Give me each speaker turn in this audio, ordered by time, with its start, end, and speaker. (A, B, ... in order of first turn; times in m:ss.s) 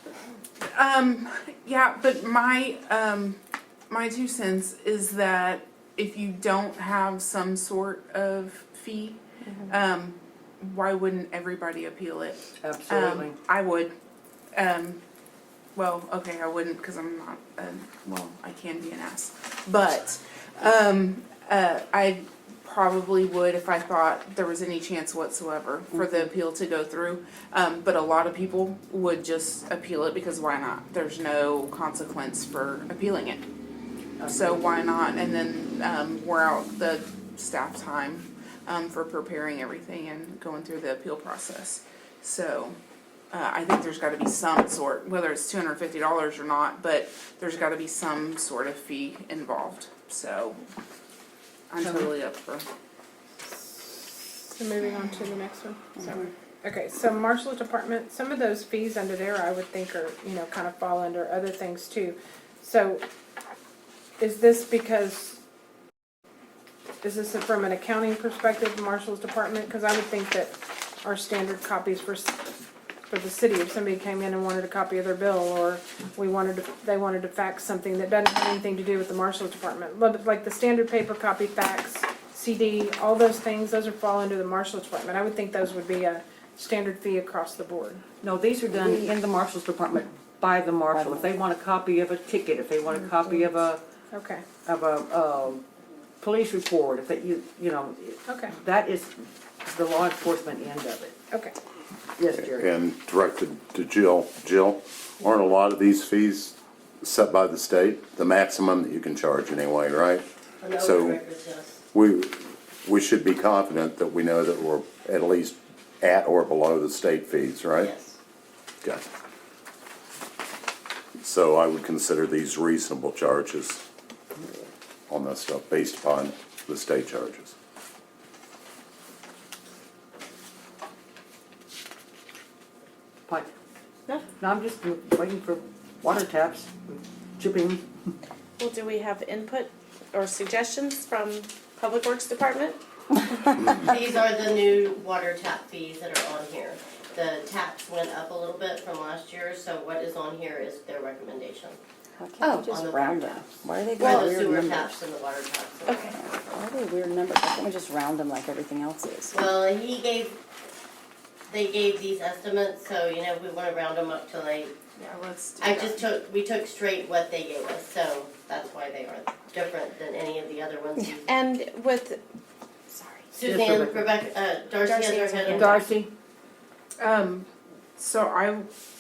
0:00.6-0:03.4 A
0:03.9-0:13.9 A
0:12.6-0:13.4 B
0:14.5-0:15.0 A
0:15.8-0:33.4 A
0:34.2-0:34.6 B
0:34.2-0:42.8 A
0:43.3-0:50.6 A
0:51.7-0:52.7 A
0:51.8-0:52.1 B
0:53.5-1:03.0 C
1:04.2-1:05.4 C
1:07.0-1:12.6 C
1:13.1-1:28.0 C
1:28.2-1:33.8 B
1:30.9-1:31.2 D
1:34.1-1:34.4 C
1:34.6-1:35.6 B
1:36.2-1:41.1 B
1:38.3-1:38.5 C
1:42.2-1:42.7 B
1:42.4-1:50.2 E
1:50.6-1:51.8 F
1:50.8-1:51.2 E
1:51.9-1:57.9 E
1:57.8-1:58.1 F
2:01.2-2:03.8 E
2:05.1-2:07.5 E
2:14.4-2:17.8 B
2:18.6-2:22.8 G
2:23.8-2:31.8 F
2:32.2-2:34.9 D
2:32.6-2:36.2 F
2:35.8-2:36.1 G
2:36.1-2:39.5 D
2:39.3-2:40.4 F
2:41.5-2:44.8 F
2:45.0-2:46.0 A
2:45.6-2:51.3 F
2:51.0-2:52.2 G
2:52.9-2:53.3 G
2:53.3-2:55.8 F
2:53.5-2:54.1 B
2:54.8-2:55.9 G
2:55.5-2:56.1 B
2:57.0-2:58.7 A